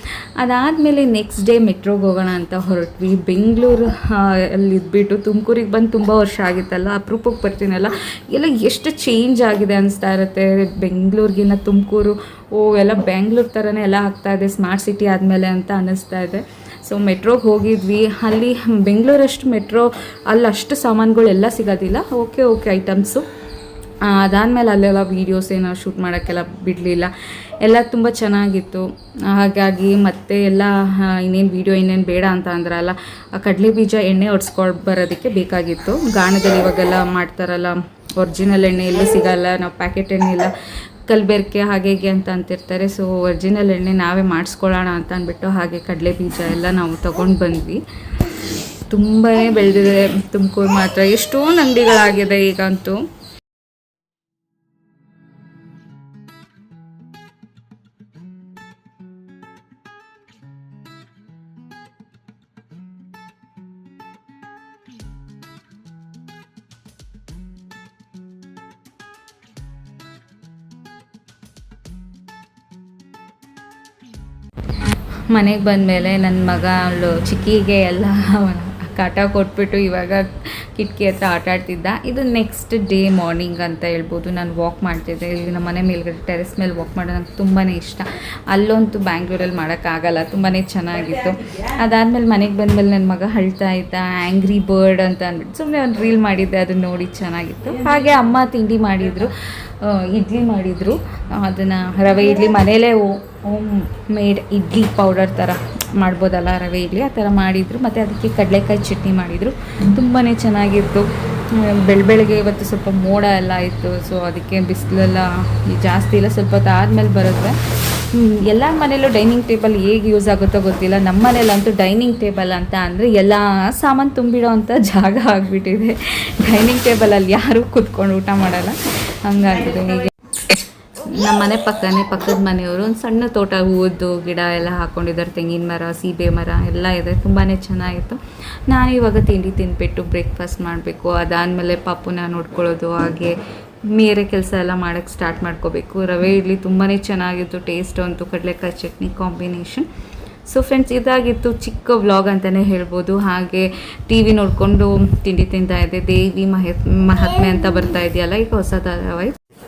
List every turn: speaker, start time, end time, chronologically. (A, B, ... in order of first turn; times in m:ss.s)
0:00.4-0:23.2 A
0:24.0-0:40.5 A
0:41.0-0:47.8 A
0:48.9-0:53.0 A
1:15.3-2:23.4 A
2:23.9-2:29.9 A
2:30.4-2:39.4 A